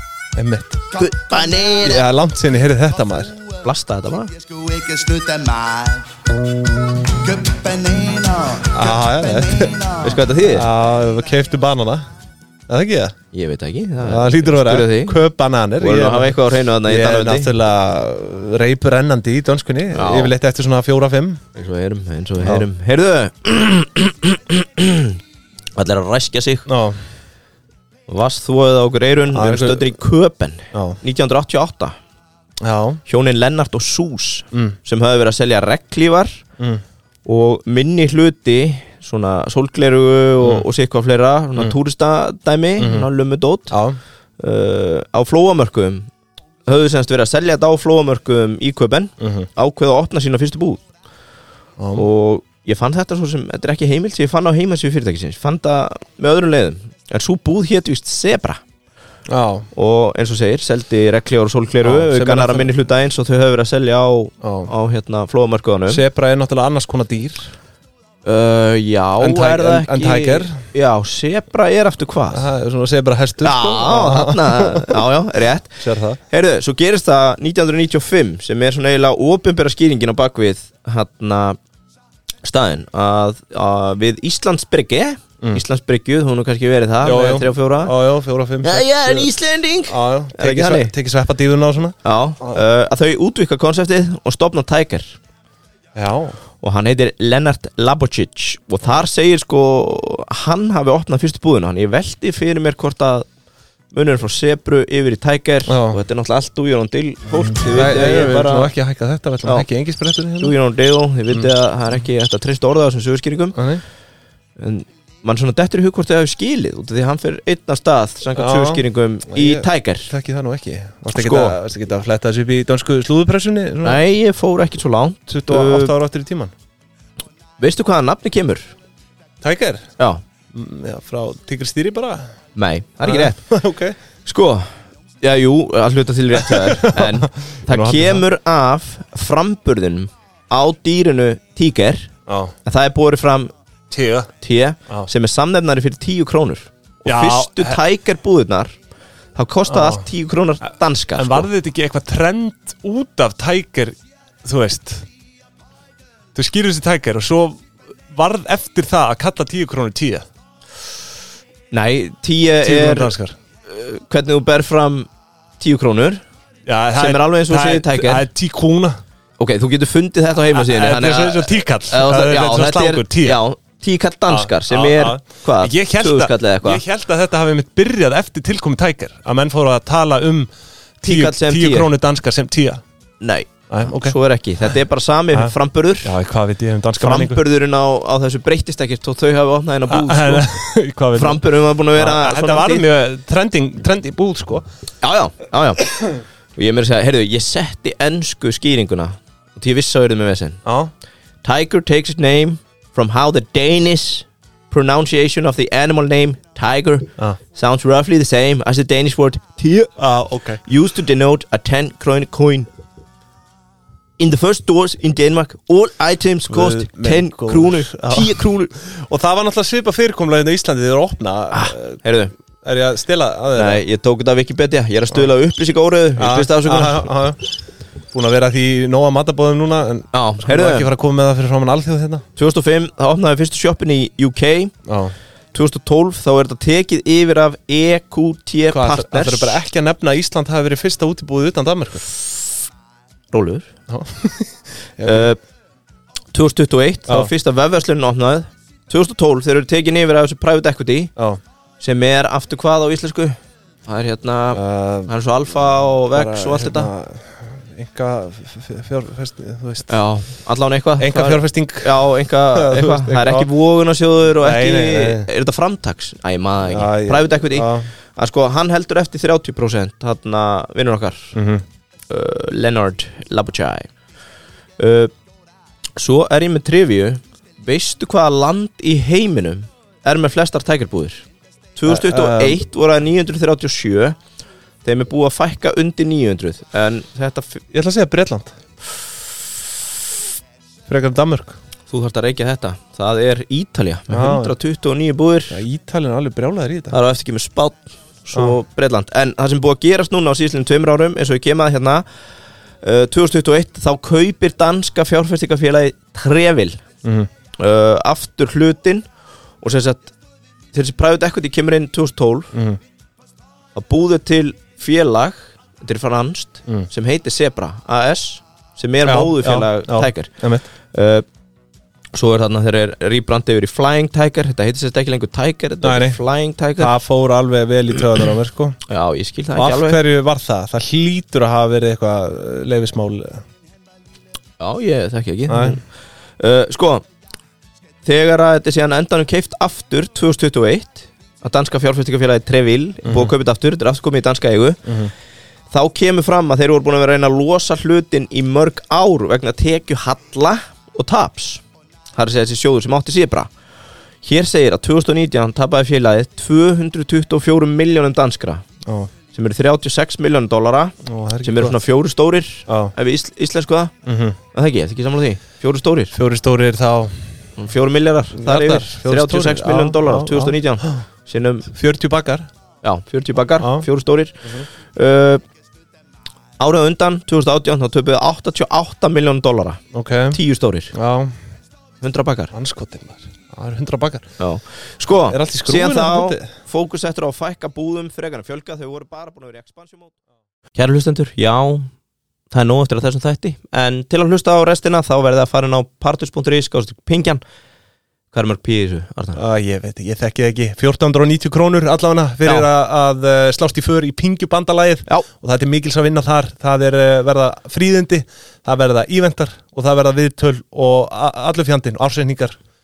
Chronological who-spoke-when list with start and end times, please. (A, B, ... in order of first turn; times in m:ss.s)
0:00.4-0:00.8 A
0:00.9-0:02.0 B
0:01.8-0:03.4 A
0:03.6-0:04.3 B
0:04.7-0:05.9 C
0:07.5-0:08.3 C
0:08.6-0:09.9 A
0:10.0-0:10.7 B
0:10.4-0:12.1 A
0:12.7-0:13.1 A
0:13.3-0:15.1 B
0:14.0-0:21.4 A
0:15.8-0:17.5 B
0:19.9-0:20.3 B
0:21.5-0:25.2 B
0:22.4-0:22.7 A
0:25.8-0:26.6 B
0:26.7-0:27.0 A
0:28.1-0:31.9 B
0:29.3-0:29.9 A
0:30.7-0:31.0 A
0:32.6-0:33.0 A
0:33.0-0:36.4 B
0:37.2-0:43.7 B
0:42.8-0:43.1 A
0:43.7-0:44.0 A
0:44.4-0:46.1 B
0:46.7-0:50.8 B
0:49.2-0:49.5 A
0:51.8-0:52.1 A
0:51.9-0:58.6 B
0:59.3-0:59.7 A
0:59.7-1:06.0 B
1:01.8-1:02.7 A
1:04.4-1:04.7 A
1:05.9-1:07.5 A
1:08.2-1:12.5 B
1:09.2-1:10.6 A
1:12.3-1:15.0 A
1:13.4-1:15.8 B
1:15.8-1:16.2 A
1:16.3-1:21.6 B
1:22.4-1:27.9 B
1:27.0-1:29.3 A
1:28.6-1:30.9 B
1:29.9-1:32.6 A
1:32.0-1:35.2 B
1:36.0-1:36.4 A
1:36.6-1:43.2 B
1:43.9-1:48.7 B
1:45.7-1:46.0 A
1:47.5-1:50.5 A
1:50.4-1:53.6 B
1:53.5-1:53.8 A
1:54.6-2:00.1 B
1:58.4-2:04.0 A
2:01.1-2:01.6 B
2:03.8-2:05.9 B
2:05.3-2:06.5 A
2:07.6-2:08.7 B
2:09.4-2:09.8 A
2:10.5-2:12.2 A
2:12.5-2:13.4 B
2:13.0-2:14.0 A
2:14.2-2:14.6 B
2:15.2-2:22.1 B
2:16.4-2:18.2 A
2:22.3-2:22.5 A
2:22.6-2:23.5 B
2:23.9-2:24.3 A
2:24.4-2:28.7 B
2:27.0-2:27.8 A
2:29.3-2:31.5 B
2:29.7-2:30.0 A
2:31.1-2:35.1 A
2:36.3-2:40.2 A
2:41.7-2:43.1 B
2:42.6-2:43.3 A
2:43.6-2:46.2 B
2:46.6-2:49.0 A
2:47.0-2:48.2 B
2:49.4-2:56.8 B
2:50.5-2:53.4 A
2:54.3-3:02.8 A
3:01.0-3:01.9 B
3:03.2-3:06.1 B
3:03.7-3:04.2 A
3:06.0-3:07.4 A
3:06.9-3:10.5 B
3:09.9-3:11.4 A
3:11.1-3:12.8 B
3:11.9-3:14.6 A
3:15.0-3:15.9 B
3:16.6-3:20.6 B
3:20.6-3:20.9 A
3:21.4-3:29.9 B
3:30.0-3:30.6 A
3:30.6-3:32.7 B
3:34.2-3:38.7 B
3:36.5-3:42.0 A
3:41.5-3:42.3 B
3:42.6-3:43.8 A
3:43.6-3:47.1 B
3:46.2-3:47.4 A
3:48.1-3:52.2 A
3:50.1-3:50.9 B
3:52.4-3:54.7 B
3:54.8-3:55.1 A
3:55.5-3:59.6 B
3:58.7-4:02.0 A
4:03.3-4:03.7 B
4:03.9-4:05.3 A
4:05.0-4:05.4 B
4:06.3-4:11.1 B
4:07.1-4:07.3 A
4:11.8-4:16.9 B
4:14.5-4:15.1 A
4:16.1-4:19.9 A
4:19.9-4:31.4 B
4:21.0-4:23.5 A
4:24.4-4:25.3 A
4:26.7-4:27.9 A
4:31.3-4:31.6 A
4:32.1-4:33.9 B
4:34.8-4:35.1 B
4:36.0-4:44.2 B
4:41.8-4:42.6 A
4:44.8-4:47.6 B
4:47.7-4:48.5 A
4:50.9-4:51.5 A
4:51.9-4:55.6 B
4:54.1-4:54.5 A
4:55.5-4:57.0 A
4:56.9-5:02.0 B
5:02.8-5:06.8 B
5:07.0-5:07.3 A
5:07.6-5:09.0 B
5:09.6-5:10.1 B
5:10.7-5:12.5 B
5:12.5-5:12.8 A
5:13.7-5:20.3 B
5:19.0-5:20.6 A
5:20.9-5:21.2 B
5:22.1-5:26.9 B
5:25.8-5:26.2 A
5:26.8-5:28.8 A
5:28.9-5:30.0 B
5:29.6-5:33.4 A
5:34.6-5:35.8 B
5:35.5-5:35.8 A
5:36.4-5:37.0 B
5:38.0-5:44.8 B
5:43.0-5:43.3 A
5:44.9-5:45.1 A
5:45.7-5:51.6 B
5:52.1-5:53.5 B
5:54.2-5:58.6 B
5:58.8-5:59.1 A
5:59.3-6:03.9 B
6:01.0-6:01.8 A
6:02.7-6:02.9 A
6:04.0-6:04.4 A
6:04.5-6:06.1 B
6:06.1-6:07.2 A
6:07.6-6:11.7 B
6:08.4-6:11.0 A
6:11.7-6:12.5 A
6:12.8-6:15.4 B
6:13.6-6:13.8 A
6:16.6-6:19.8 B
6:19.9-6:20.4 A
6:20.3-6:20.9 B
6:20.9-6:21.3 A
6:22.0-6:22.5 B
6:22.5-6:24.2 A
6:24.4-6:30.2 B
6:25.3-6:26.5 A
6:30.7-6:31.9 B
6:32.5-6:37.4 B
6:38.3-6:39.4 B
6:39.4-6:52.6 A